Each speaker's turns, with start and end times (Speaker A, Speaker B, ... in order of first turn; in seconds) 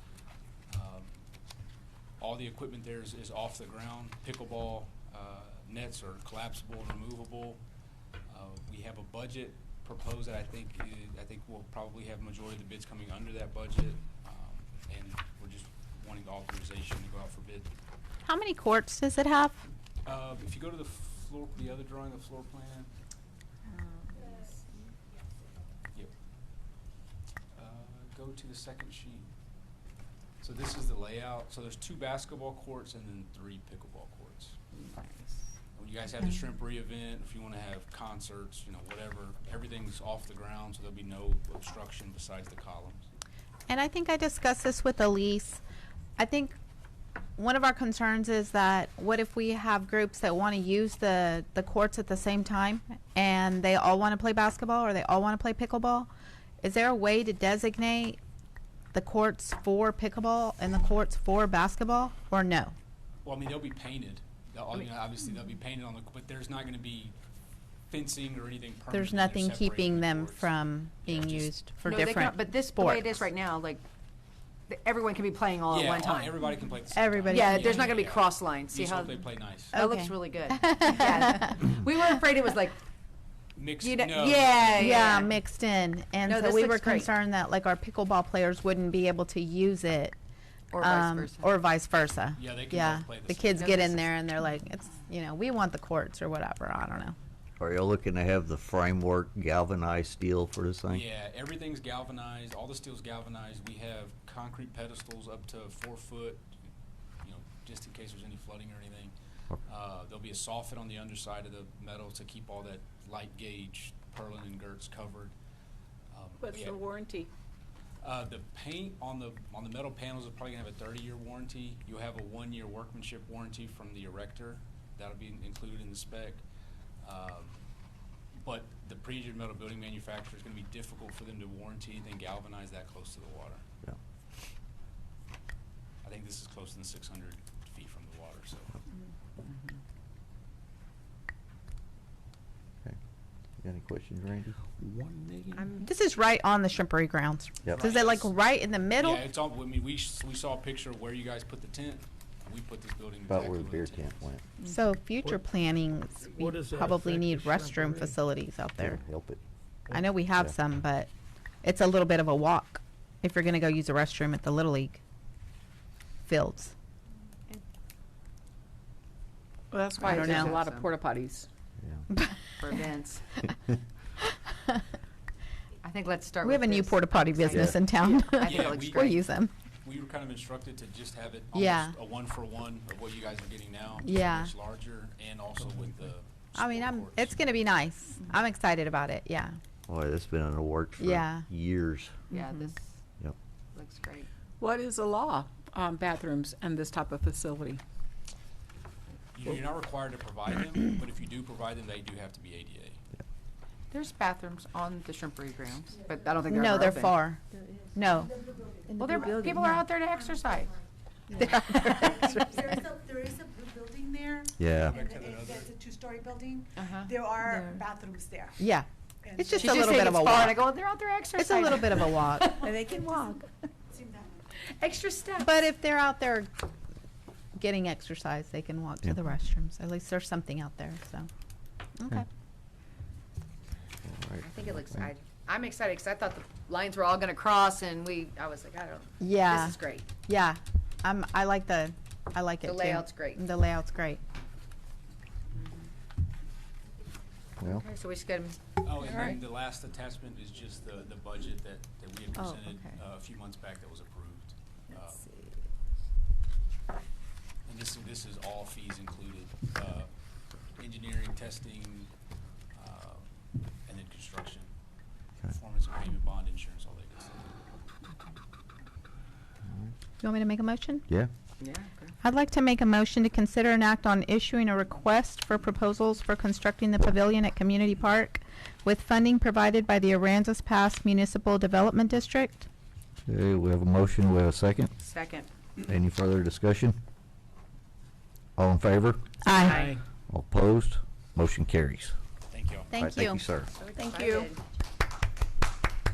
Speaker A: 0.7-1.2, 2.2-7.6, 8.3-17.7, 20.0-22.9, 27.5-29.3, 30.4-34.6, 35.8-43.0, 63.2-67.1, 67.9-71.5, 75.7-79.8, 83.5-85.2, 92.3-93.9, 100.9-106.5, 107.2-109.1, 109.6-115.3, 116.1-116.8, 118.0-126.4, 127.0-127.6, 128.4-133.6, 136.0-138.7, 147.7-148.3, 149.0-154.1, 178.4-179.2, 179.8-187.4, 199.3-203.0, 214.8-215.8, 248.8-255.2, 257.6-260.1, 260.8-262.1, 262.7-263.2, 263.9-264.7, 265.5-267.4, 292.5-292.9
Speaker B: 18.2-19.6, 43.7-45.6, 46.2-46.5, 47.4-56.1, 56.6-58.2, 58.9-62.7, 68.9-73.0, 76.9-77.9, 79.7-81.7, 84.7-90.2, 90.8-97.2, 145.8-149.2, 154.6-159.0, 159.9-161.1, 161.6-165.0, 166.3-166.7, 170.0-170.6, 172.1-172.6, 176.4-179.5, 181.5-181.9, 184.0-184.5, 186.5-189.6, 191.0-191.5, 206.5-207.4, 207.9-208.3, 218.6-220.7, 221.4-222.6, 225.4-226.5, 227.6-231.3, 232.0-232.2, 239.2-244.2, 270.2-271.1, 272.2-282.7, 289.4-289.8, 292.9-293.4
Speaker C: 23.7-24.6, 34.8-35.3, 71.8-73.8, 74.7-76.4, 77.3-82.8, 83.8-85.3, 86.2-87.1, 90.7-91.5, 93.5-94.1, 170.0-170.9, 172.6-173.2, 175.8-179.2, 192.3-192.9, 193.7-194.3, 203.9-207.2, 209.0-210.8, 211.3-213.0, 216.7-217.3, 219.6-222.8, 224.6-225.6, 234.4-240.1, 242.6-243.4, 245.5-245.9, 247.6-248.6, 249.1-249.3, 252.4-252.9, 271.6-272.1, 285.0-285.5, 289.5-290.0, 293.7-294.6
Speaker D: 97.6-101.0, 143.6-144.6, 153.3-154.4, 158.8-159.4, 189.9-192.1, 214.6-215.0, 234.0-235.1, 283.2-284.9, 285.8-286.9, 288.6-289.3, 290.3-292.1, 292.9-293.7
Speaker E: 116.4-117.3, 169.7-171.5, 194.6-197.8, 209.2-209.6, 217.5-217.8, 222.8-223.3, 289.5-290.0, 293.9-294.5
Speaker F: 144.8-145.7, 156.3-158.2
Speaker G: 208.8-209.6, 213.1-214.5, 215.8-216.6, 217.2-218.5, 222.7-223.4